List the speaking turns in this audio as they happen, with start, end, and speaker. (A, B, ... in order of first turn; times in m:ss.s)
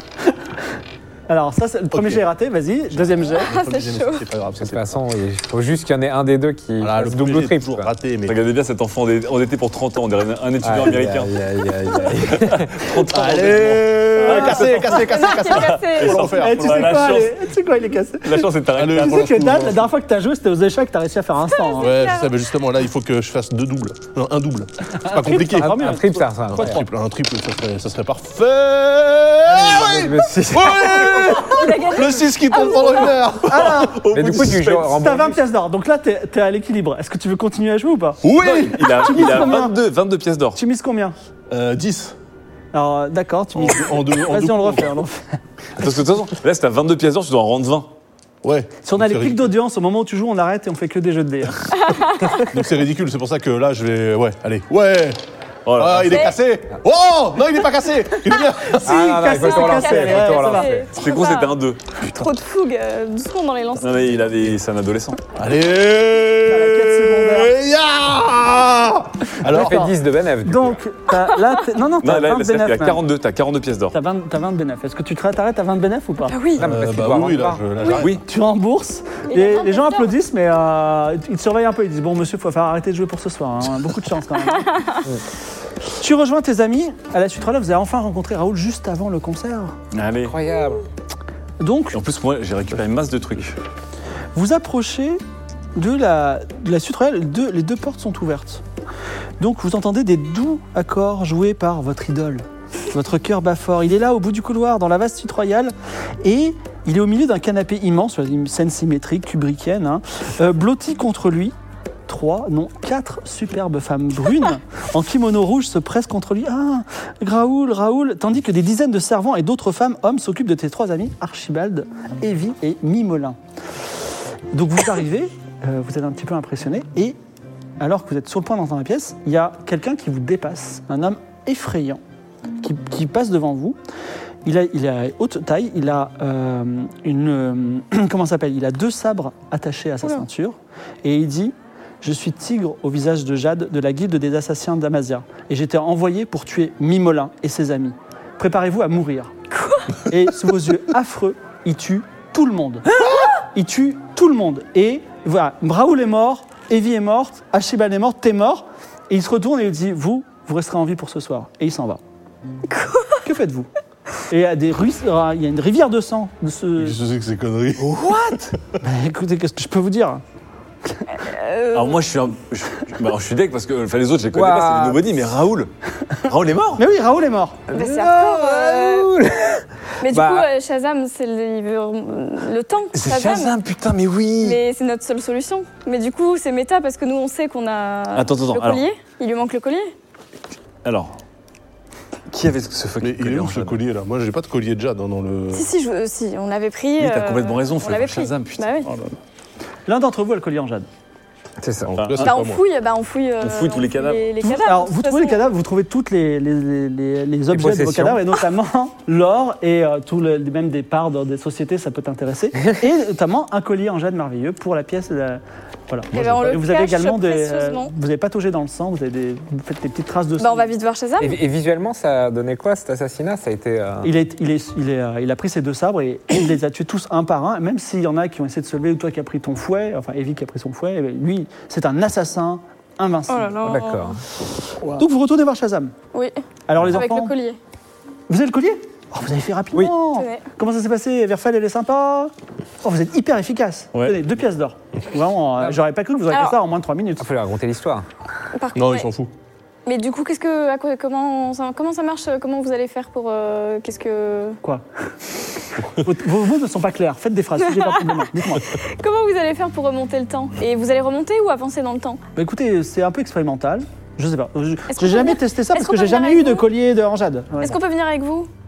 0:01.3-0:03.5 A
0:01.9-0:02.2 B
0:03.0-0:05.0 B
0:03.3-0:04.3 C
0:04.6-0:07.9 D
0:06.8-0:08.4 B
0:08.3-0:11.3 E
0:10.6-0:12.7 D
0:12.2-0:17.4 E
0:13.1-0:17.2 B
0:14.2-0:16.4 C
0:16.3-0:21.9 A
0:18.2-0:19.3 E
0:18.7-0:19.9 B
0:21.5-0:22.4 C
0:21.8-0:25.8 B
0:25.0-0:26.9 A
0:25.6-0:26.8 D
0:26.5-0:33.9 B
0:29.4-0:31.4 D
0:31.1-0:33.2 C
0:33.4-0:34.0 A
0:33.6-0:35.1 E
0:34.1-0:35.4 D
0:35.0-0:39.8 A
0:38.2-0:39.1 B
0:38.2-0:40.6 E
0:40.6-0:41.2 A
0:41.5-0:42.2 B
0:42.7-0:45.4 A
0:43.6-0:45.0 B
0:45.8-0:47.9 E
0:48.4-0:49.5 B
0:48.8-0:51.9 A
0:51.8-0:52.5 C
0:52.5-0:55.2 B
0:55.7-0:56.3 E
0:55.8-0:59.0 B
0:56.1-0:56.4 C
0:58.2-0:58.4 C
0:58.8-1:00.7 A
0:58.8-1:00.9 D
0:59.3-1:04.1 C
1:01.0-1:01.8 E
1:03.8-1:05.2 E
1:05.4-1:09.9 B
1:06.4-1:07.5 A
1:09.5-1:10.8 D
1:10.4-1:13.0 A
1:12.0-1:14.0 E
1:13.9-1:16.4 A
1:16.3-1:16.7 C
1:16.6-1:17.6 D
1:16.6-1:18.2 B
1:18.0-1:18.2 E
1:18.2-1:24.9 A
1:19.3-1:20.1 C
1:24.6-1:25.0 C
1:26.0-1:29.8 A
1:29.9-1:30.4 E
1:30.2-1:30.9 D
1:31.6-1:32.0 A
1:31.9-1:33.6 E
1:34.4-1:35.2 A
1:35.8-1:38.6 A
1:39.4-1:51.5 A
1:52.1-2:03.4 A
2:04.5-2:07.2 A
2:07.8-2:12.0 A
2:12.6-2:13.8 A
2:14.4-2:29.3 A
2:29.6-2:30.0 C
2:30.0-2:42.0 A
2:42.7-2:43.2 C
2:43.2-2:43.7 A
2:44.3-2:47.0 A
2:46.8-2:48.0 B
2:48.0-2:50.2 A
2:51.1-2:52.0 C
2:51.7-2:56.8 E
2:54.3-2:55.0 D
2:56.8-2:57.6 A
2:57.7-3:00.5 D
2:57.7-2:59.1 C
3:00.0-3:03.6 C
3:02.9-3:04.6 E
3:04.4-3:09.9 C
3:08.1-3:08.8 E
3:10.8-3:11.2 E
3:12.3-3:13.8 E
3:13.0-3:15.7 B
3:15.5-3:18.9 C
3:17.0-3:19.1 E
3:19.9-3:20.9 A
3:21.6-3:21.9 D
3:21.9-3:22.6 B
3:22.0-3:22.3 E
3:22.2-3:25.4 C
3:23.4-3:24.2 E
3:24.4-3:40.7 A
3:27.5-3:28.2 D
3:36.1-3:37.9 C
3:40.4-3:41.4 C
3:41.2-3:44.1 D
3:44.0-3:53.6 A
3:53.3-3:54.2 C
3:53.6-3:54.2 D
3:54.9-3:55.9 A
3:56.7-3:57.4 A
3:56.9-3:57.6 C
3:58.3-4:07.3 A
4:00.1-4:00.4 C
4:06.3-4:06.6 C
4:07.2-4:08.1 D
4:08.6-4:09.1 C
4:08.7-4:09.3 B
4:09.9-4:14.6 C
4:15.9-4:18.7 A
4:17.7-4:22.2 C
4:22.4-4:27.8 A
4:24.9-4:26.7 C
4:27.6-4:28.5 C